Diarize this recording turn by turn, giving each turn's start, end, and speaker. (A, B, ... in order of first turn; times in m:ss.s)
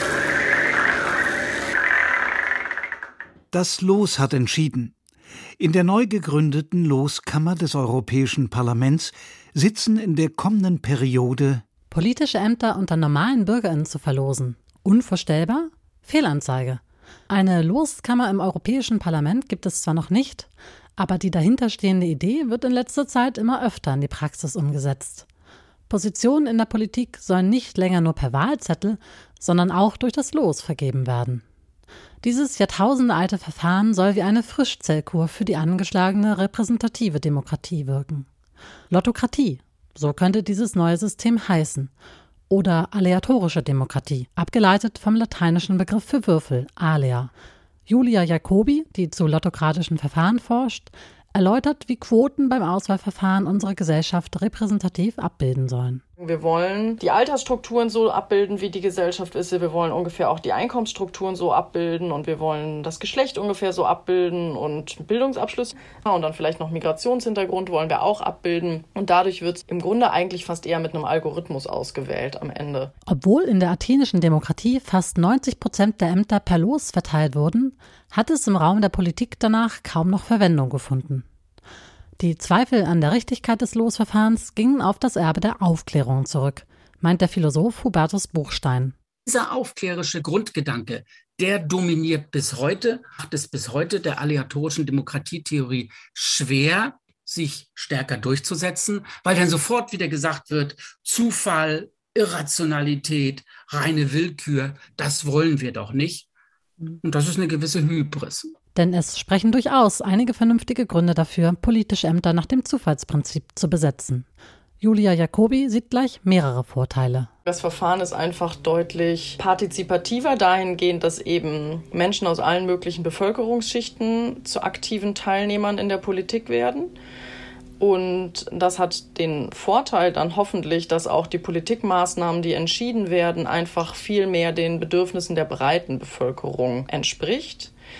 0:03.5-0:04.9 A
0:05.6-0:11.6 A
0:11.9-0:25.2 B
0:25.9-0:31.4 B
0:32.2-0:38.3 B
0:38.9-0:41.9 B
0:42.5-0:47.3 B
0:47.9-0:56.0 B
0:56.2-1:12.9 C
1:13.1-1:21.2 B
1:22.2-1:28.9 B
1:29.2-1:46.3 D
1:47.0-1:48.5 D
1:48.7-1:54.2 B
1:54.8-1:57.3 B
1:57.5-2:06.9 C
2:07.8-2:17.7 C